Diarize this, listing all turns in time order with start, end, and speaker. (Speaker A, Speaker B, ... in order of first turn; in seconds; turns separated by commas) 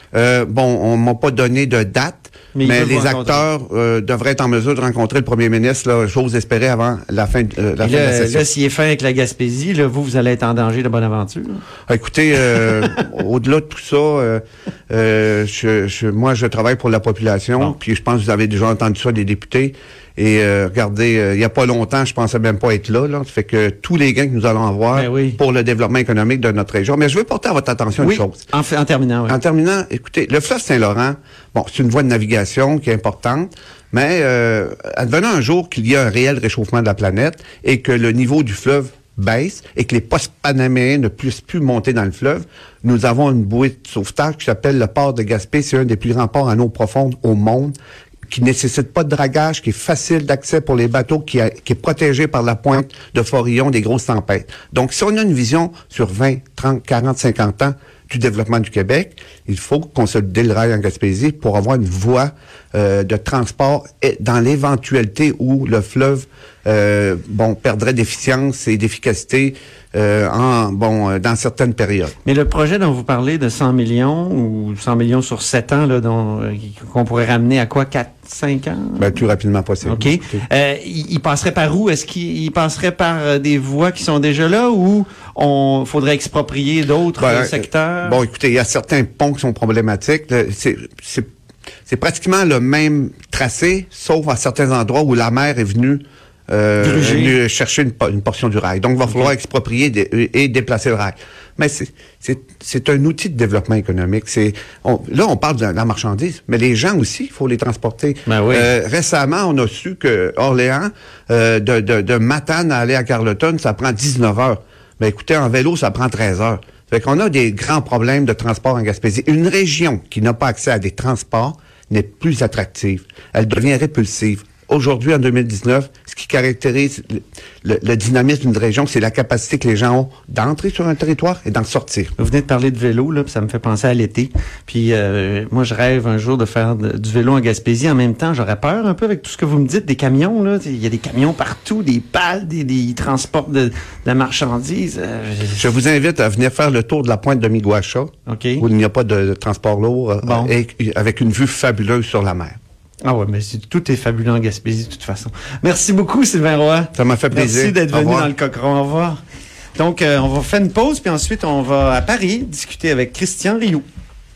Speaker A: 0.1-8.5, Speaker B: 2.5-3.5, Speaker B: 7.8-11.6, Speaker A: 11.9-28.5, Speaker B: 24.9-25.4, Speaker B: 28.0-29.4, Speaker A: 29.3-47.8, Speaker A: 48.3-72.2, Speaker B: 72.2-79.1, Speaker A: 79.0-80.5, Speaker B: 79.8-88.2, Speaker A: 87.2-91.3, Speaker A: 91.9-132.1, Speaker B: 96.8-97.4, Speaker B: 108.3-108.7, Speaker B: 132.2-145.7, Speaker A: 145.6-152.6, Speaker B: 148.3-148.7, Speaker B: 150.2-150.5, Speaker B: 153.0-159.2, Speaker A: 156.9-158.3, Speaker B: 159.8-163.8